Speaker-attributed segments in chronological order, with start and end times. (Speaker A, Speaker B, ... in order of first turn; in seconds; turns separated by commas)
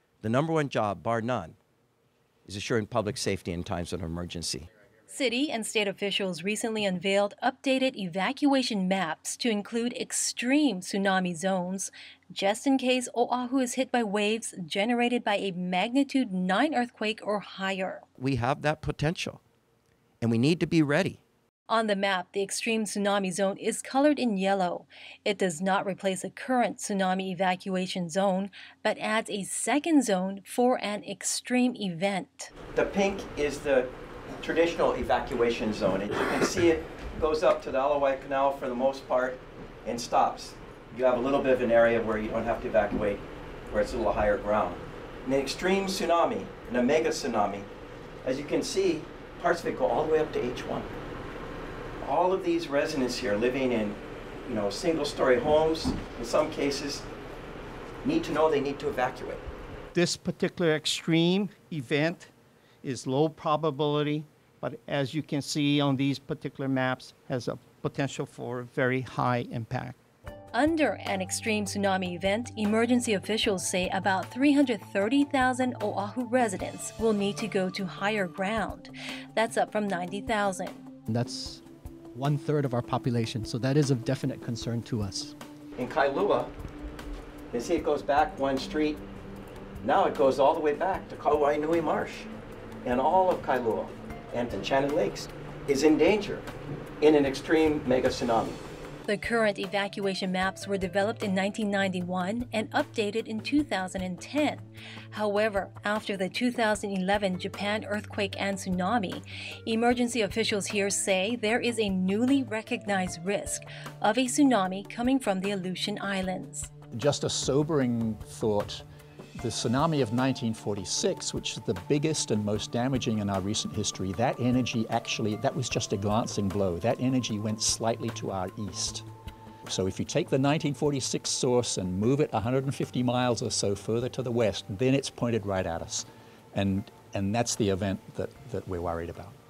Speaker A: 0.2-1.6, Speaker A: 2.5-4.7, Speaker B: 5.1-18.0, Speaker A: 18.2-19.4, Speaker A: 20.2-21.2, Speaker B: 21.7-32.5, Speaker A: 32.7-47.7, Speaker A: 48.2-50.9, Speaker A: 52.0-57.0, Speaker A: 58.0-59.4, Speaker C: 59.9-62.3, Speaker C: 62.8-70.0, Speaker B: 70.5-80.8, Speaker D: 81.1-81.6, Speaker D: 82.1-85.3, Speaker A: 85.8-86.5, Speaker A: 87.5-89.0, Speaker A: 89.8-92.3, Speaker A: 92.8-96.5, Speaker A: 97.0-98.6, Speaker B: 99.1-116.7, Speaker E: 116.9-118.8, Speaker E: 119.4-129.0, Speaker E: 129.7-139.4